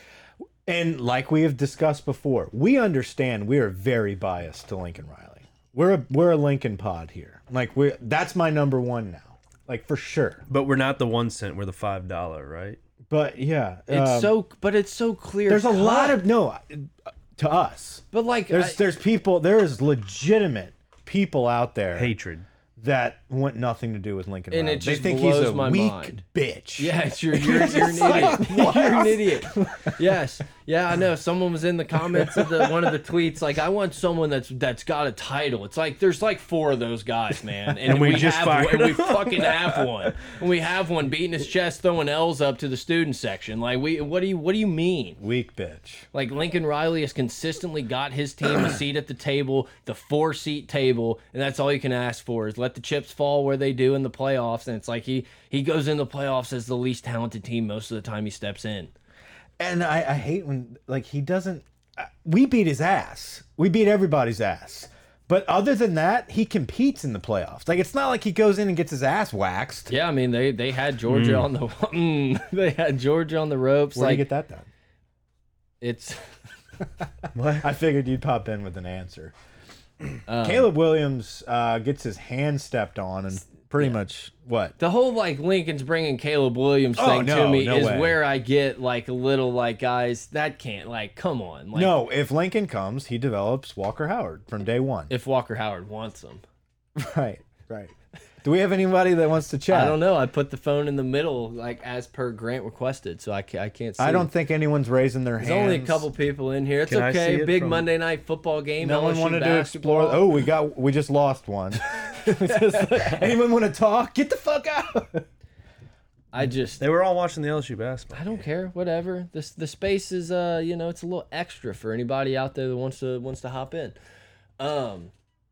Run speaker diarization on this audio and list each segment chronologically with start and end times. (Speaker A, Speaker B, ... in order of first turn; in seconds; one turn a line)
Speaker A: 0.7-10.4
Speaker B: 10.5-12.8
Speaker A: 13.1-14.4
Speaker C: 13.9-16.2
Speaker A: 15.5-22.1
Speaker C: 18.1-18.8
Speaker B: 22.0-22.4
Speaker A: 22.8-30.0
Speaker C: 24.5-26.2
Speaker C: 26.8-45.2
Speaker A: 32.1-32.9
Speaker B: 37.9-40.1
Speaker A: 45.2-46.1
Speaker C: 46.1-58.9
Speaker A: 59.6-69.9
Speaker C: 69.9-74.2
Speaker B: 71.1-71.5
Speaker A: 73.9-74.7
Speaker C: 75.8-76.2
Speaker B: 77.3-77.7
Speaker A: 77.6-79.3
Speaker A: 80.0-84.8
Speaker C: 80.3-80.7
Speaker C: 84.8-92.0
Speaker A: 87.0-88.2
Speaker A: 91.7-95.1
Speaker C: 95.1-96.4
Speaker A: 97.0-100.0
Speaker C: 99.7-104.3
Speaker A: 104.0-106.1
Speaker C: 105.4-110.3
Speaker B: 106.9-107.9
Speaker A: 108.8-115.3
Speaker C: 112.0-113.2
Speaker C: 116.3-116.8
Speaker B: 116.8-118.4
Speaker C: 118.1-124.0
Speaker C: 124.6-125.1